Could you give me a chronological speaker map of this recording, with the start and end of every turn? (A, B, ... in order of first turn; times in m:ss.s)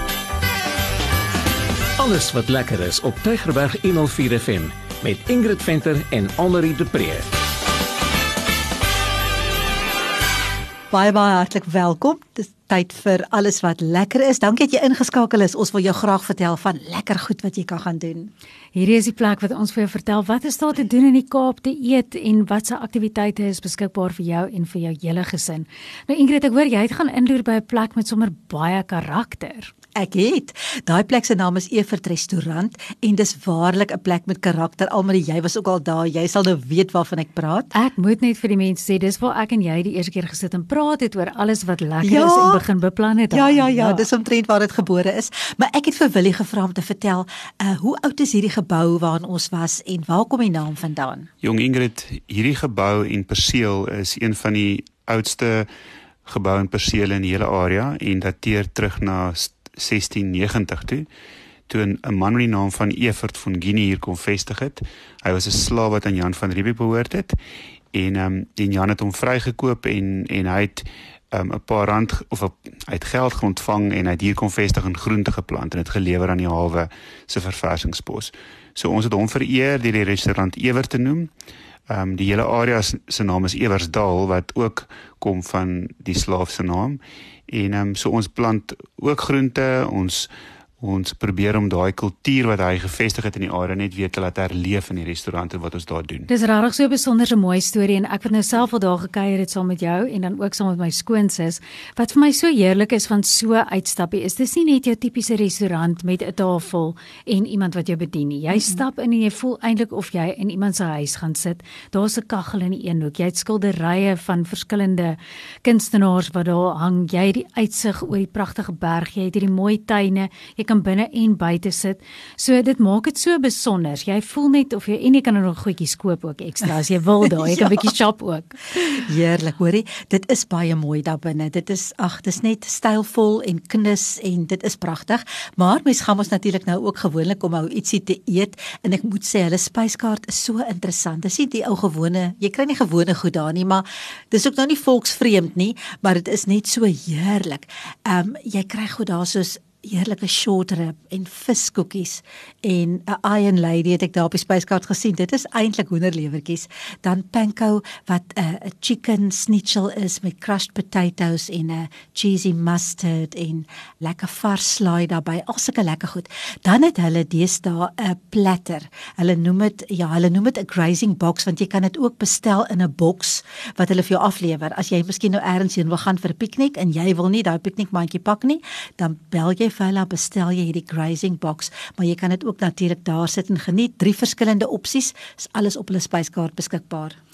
0:02.0-0:07.3 A
0:10.9-0:18.3 B
0:18.7-0:29.7 C
0:30.0-0:37.7 B
0:37.7-0:44.0 C
0:42.0-0:42.6 B
0:43.3-0:51.3 B
0:51.4-0:55.7 D
0:56.2-1:01.1 D
1:01.7-1:07.3 D
1:07.9-1:21.3 D
1:21.9-1:36.3 D
1:36.3-2:08.8 C
2:07.2-2:07.9 B
2:08.8-3:07.2 B